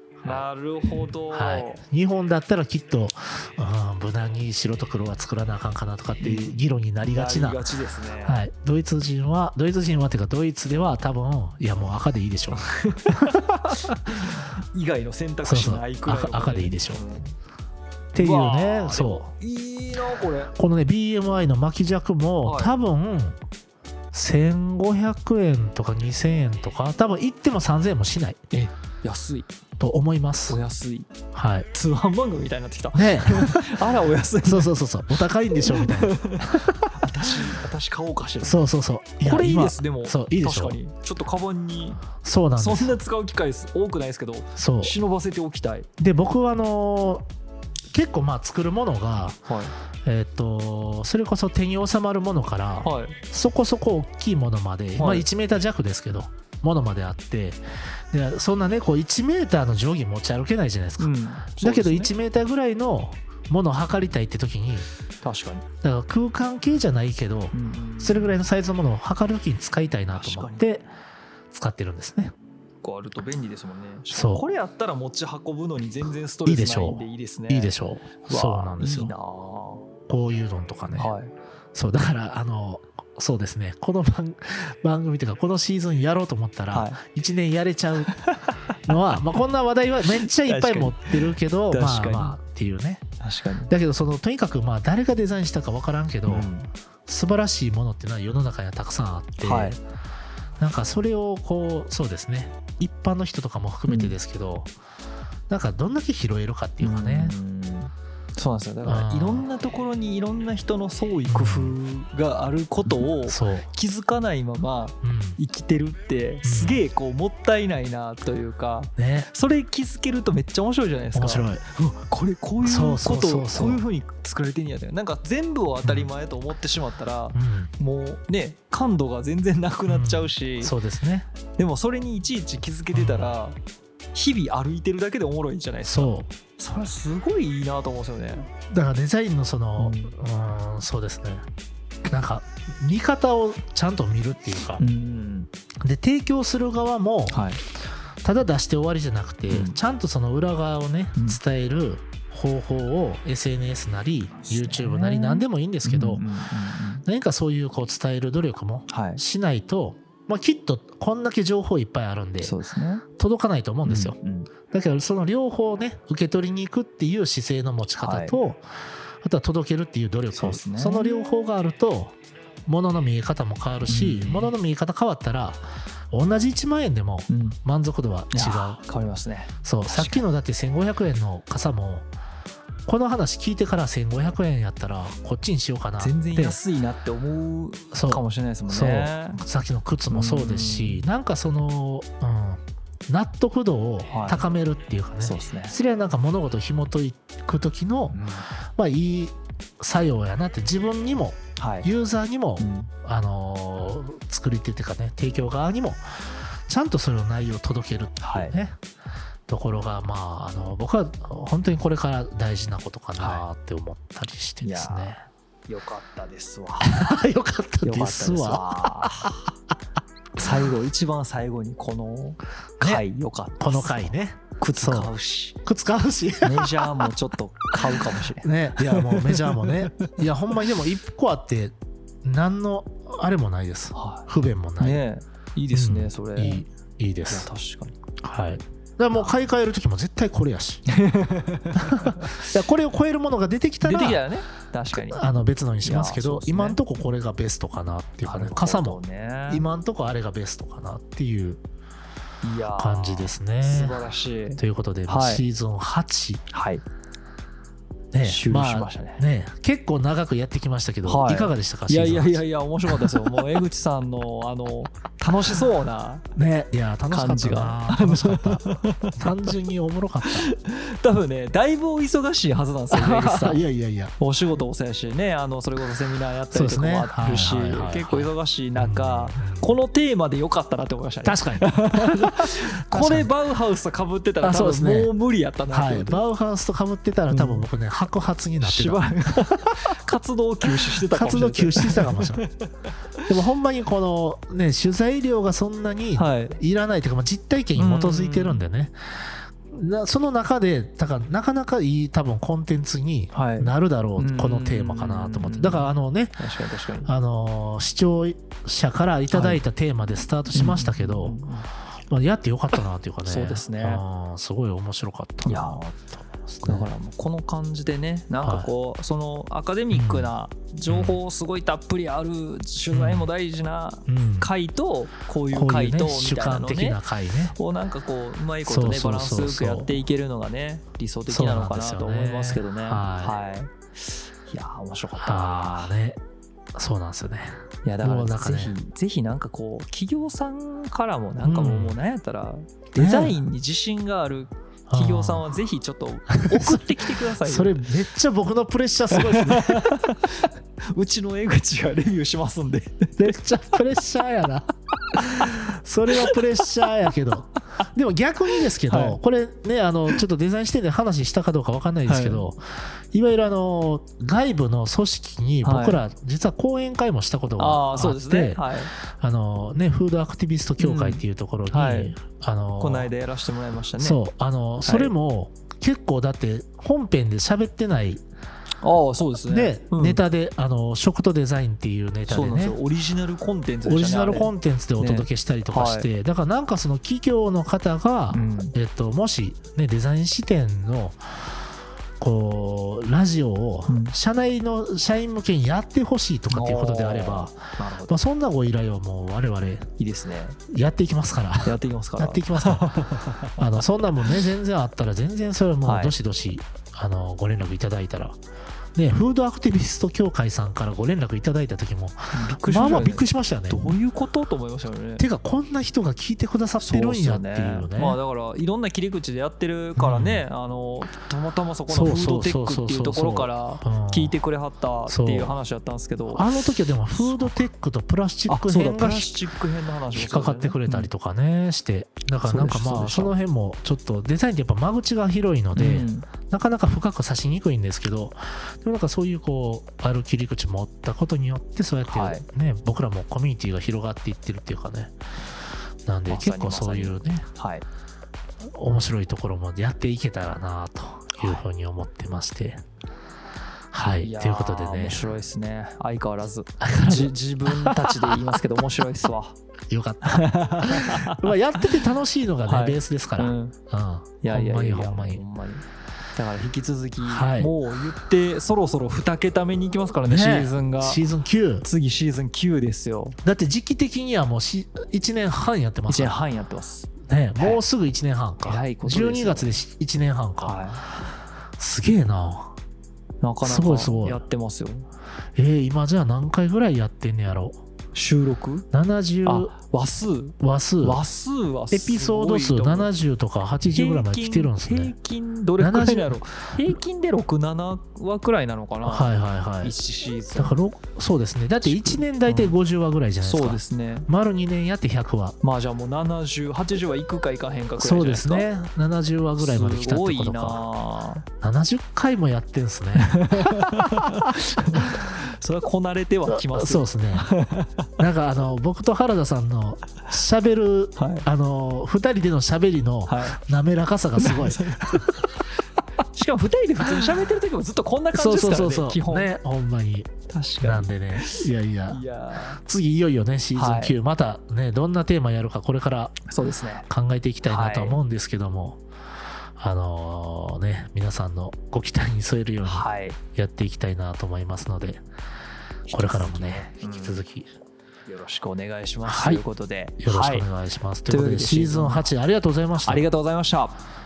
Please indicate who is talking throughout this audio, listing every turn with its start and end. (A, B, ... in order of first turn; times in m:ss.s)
0:00.2-0:01.8 A
0:01.3-0:07.6 B
0:06.2-0:08.4 A
0:08.2-0:14.0 B
0:12.6-0:17.3 A
0:15.4-0:17.0 B
0:18.1-0:19.3 B
0:18.1-0:20.5 A
0:20.6-0:23.4 B
0:22.4-0:22.7 A
0:24.1-0:28.4 B
0:28.5-0:29.5 A
0:29.8-0:30.6 B
0:30.5-0:31.1 A
0:31.3-0:31.7 B
0:31.7-0:34.8 A
0:32.9-0:33.9 B
0:34.4-0:36.9 B
0:35.5-0:38.6 A
0:38.4-0:40.8 B
0:39.2-0:42.0 A
0:42.2-0:43.0 B
0:42.6-0:45.9 A
0:44.6-0:44.9 B
0:46.0-0:47.2 B
0:47.9-0:49.4 B
0:49.5-0:49.7 A
0:50.0-1:04.9 B
0:52.8-0:53.2 A
0:55.0-0:55.3 A
1:01.0-1:02.1 A
1:05.2-1:05.6 A
1:05.8-1:10.9 B
1:07.5-1:08.4 A
1:10.1-1:10.6 A
1:11.5-1:12.3 B
1:12.8-1:17.7 A
1:14.1-1:14.4 B
1:16.4-1:19.1 B
1:18.3-1:19.8 A
1:20.1-1:21.1 B
1:20.9-1:21.3 A
1:21.7-1:28.2 B
1:26.7-1:27.0 A
1:28.1-1:28.9 A
1:28.9-1:33.1 B
1:30.1-1:32.4 A
1:33.2-1:33.7 A
1:33.7-1:36.5 B
1:36.3-1:36.7 A
1:37.1-1:39.8 B
1:39.4-1:39.8 A
1:40.6-1:44.7 B
1:43.9-1:44.1 A
1:45.5-1:47.4 B
1:46.8-2:10.8 A
1:48.8-1:49.4 B
1:51.3-1:51.8 B
1:52.9-1:53.6 B
1:55.0-1:55.4 B
1:56.4-1:56.8 B
1:59.0-1:59.3 B
2:01.1-2:01.6 B
2:02.6-2:03.8 B
2:05.8-2:06.1 B
2:07.3-2:07.7 B
2:09.9-2:11.3 B
2:11.6-2:13.6 A
2:12.9-2:13.4 B
2:14.1-2:18.5 A
2:15.9-2:16.3 B
2:18.7-2:21.4 B
2:19.8-2:20.2 A
2:22.1-2:24.9 B
2:24.8-2:25.5 A
2:25.8-2:27.4 B
2:27.3-2:27.6 A
2:28.2-2:36.2 B
2:29.5-2:29.8 A
2:34.4-2:37.0 A
2:37.0-2:42.6 B
2:38.9-2:39.2 A
2:42.4-2:43.0 A
2:43.2-2:44.1 B
2:43.9-2:44.5 A
2:44.7-2:48.6 B
2:48.0-2:48.4 A
2:49.2-2:52.1 B
2:50.4-2:51.1 A
2:52.6-2:58.8 B
2:53.9-2:54.5 A
2:57.3-2:57.6 A
2:58.3-3:00.2 A
2:59.6-3:02.1 B
3:02.9-3:06.6 B
3:06.0-3:09.4 A
3:07.9-3:18.2 B
3:10.1-3:11.0 A
3:14.1-3:14.4 A
3:15.2-3:15.8 A
3:18.1-3:18.4 A
3:18.8-3:28.8 B
3:21.6-3:21.9 A
3:22.6-3:22.9 A
3:28.2-3:28.6 A
3:29.5-3:35.2 B
3:33.2-3:33.4 A
3:34.6-3:35.2 A
3:35.7-3:37.0 A
3:36.8-3:39.4 B
3:37.8-3:39.4 A
3:40.4-3:45.6 A
3:43.6-3:45.1 B
3:45.6-3:47.1 B
3:46.4-3:50.1 A
3:47.8-3:55.0 B
3:53.9-3:54.3 A
3:54.8-3:56.6 A
3:55.7-3:57.5 B
3:57.3-3:58.0 A
3:58.2-4:00.9 B
4:00.9-4:02.5 A
4:01.8-4:04.2 B
4:03.8-4:06.8 A
4:05.1-4:11.6 B
4:08.2-4:09.6 A
4:12.4-4:15.4 A
4:12.8-4:14.0 B
4:14.6-4:16.4 B
4:16.5-4:16.8 A
4:18.1-4:23.4 B
4:18.2-4:19.2 A
4:21.1-4:26.2 A
4:26.4-4:30.5 B
4:27.1-4:29.5 A
4:30.2-4:33.6 A
4:32.9-4:34.1 B
4:34.2-4:46.2 A
4:36.5-4:39.7 B
4:41.2-4:43.3 B
4:44.4-4:45.1 B
4:45.7-4:49.7 B
4:47.3-4:47.6 A
4:48.6-4:53.3 A
4:50.7-4:52.4 B
4:53.3-5:06.4 B
4:56.2-4:56.6 A
4:57.8-4:58.6 A
5:03.3-5:07.1 A
5:07.0-5:11.4 B
5:09.3-5:09.6 A
5:10.5-5:11.7 A
5:12.1-5:16.9 B
5:13.2-5:14.0 A
5:15.4-5:15.8 A
5:16.6-5:27.0 A
5:18.4-5:18.7 B
5:19.9-5:20.3 B
5:20.9-5:21.2 B
5:22.9-5:23.3 B
5:24.1-5:24.5 B
5:25.5-5:27.5 B
5:27.5-5:36.0 A
5:28.7-5:29.9 B
5:31.3-5:33.4 B
5:35.2-5:36.2 B
5:36.7-5:38.7 B
5:37.8-5:47.9 A
5:41.4-5:42.0 B
5:43.0-5:43.4 B
5:44.9-5:45.4 B
5:46.4-5:50.0 B
5:49.1-5:53.3 A
5:53.2-6:13.1 B
5:56.1-5:56.8 A
5:58.8-5:59.2 A
6:02.1-6:02.4 A
6:05.6-6:06.0 A
6:07.6-6:08.9 A
6:10.8-6:12.2 A
6:12.8-6:14.2 A
6:14.0-6:18.2 B
6:14.8-6:15.1 A
6:18.8-6:20.2 A
6:19.4-6:22.8 B
6:22.3-6:26.1 A
6:23.9-6:31.2 B
6:28.3-6:28.7 A
6:32.2-6:39.9 B
6:33.9-6:34.1 A
6:36.5-6:38.2 A
6:40.0-6:40.6 A
6:40.7-6:48.4 B
6:41.6-6:43.8 A
6:45.8-6:46.2 A
6:49.0-6:53.8 B
6:52.3-6:55.2 A
6:55.2-6:58.2 B
6:56.8-7:06.5 A
7:00.0-7:00.4 B
7:01.9-7:04.4 B
7:05.1-7:05.6 B
7:06.3-7:09.3 B
7:07.1-7:07.6 A
7:08.5-7:11.1 A
7:10.1-7:25.1 B
7:12.4-7:13.3 A
7:15.7-7:16.3 A
7:22.1-7:22.4 A
7:26.0-7:27.5 B
7:26.3-7:27.8 A
7:28.7-7:32.8 B
7:33.9-7:35.3 B
7:34.2-7:39.6 A
7:36.8-7:38.3 B
7:39.9-7:45.4 B
7:40.2-7:41.8 A
7:42.6-7:43.7 A
7:44.4-7:45.8 A
7:46.4-7:51.2 A
7:47.2-7:47.8 B
7:50.2-7:51.9 B
7:51.8-7:53.4 A
7:53.4-7:56.4 B
7:56.1-7:57.8 A
7:57.2-8:00.8 B
7:58.6-7:59.7 A
8:00.6-8:01.0 A
8:01.8-8:02.7 B
8:03.4-8:05.0 A
8:03.6-8:04.4 B
8:05.6-8:07.8 B
8:08.1-8:08.9 A
8:08.9-8:09.7 B
8:09.4-8:13.1 A
8:10.6-8:11.2 B
8:11.9-8:15.1 B
8:13.8-8:20.8 A
8:15.8-8:16.4 B
8:19.0-8:20.0 B
8:20.5-8:25.6 B
8:21.8-8:22.7 A
8:23.4-8:24.3 A
8:25.6-8:28.7 A
8:28.0-8:30.8 B
8:29.6-8:31.4 A
8:31.6-8:35.1 B
8:33.2-8:38.1 A
8:36.5-8:37.5 B
8:38.2-8:45.4 B
8:41.2-8:41.4 A
8:43.3-8:43.6 A
8:44.4-8:45.4 A
8:46.3-8:49.5 A
8:48.3-8:52.2 B
8:50.5-8:52.8 A
8:52.8-8:56.4 B
8:53.7-8:54.2 A
8:56.5-8:57.1 A
8:57.1-8:59.0 B
8:57.6-8:58.2 A
8:59.8-9:05.2 B
9:02.8-9:03.4 A
9:06.1-9:07.4 A
9:06.1-9:07.7 B
9:08.3-9:10.7 A
9:09.2-9:09.6 B
9:10.2-9:13.3 B
9:11.3-9:12.3 A
9:13.0-9:14.0 A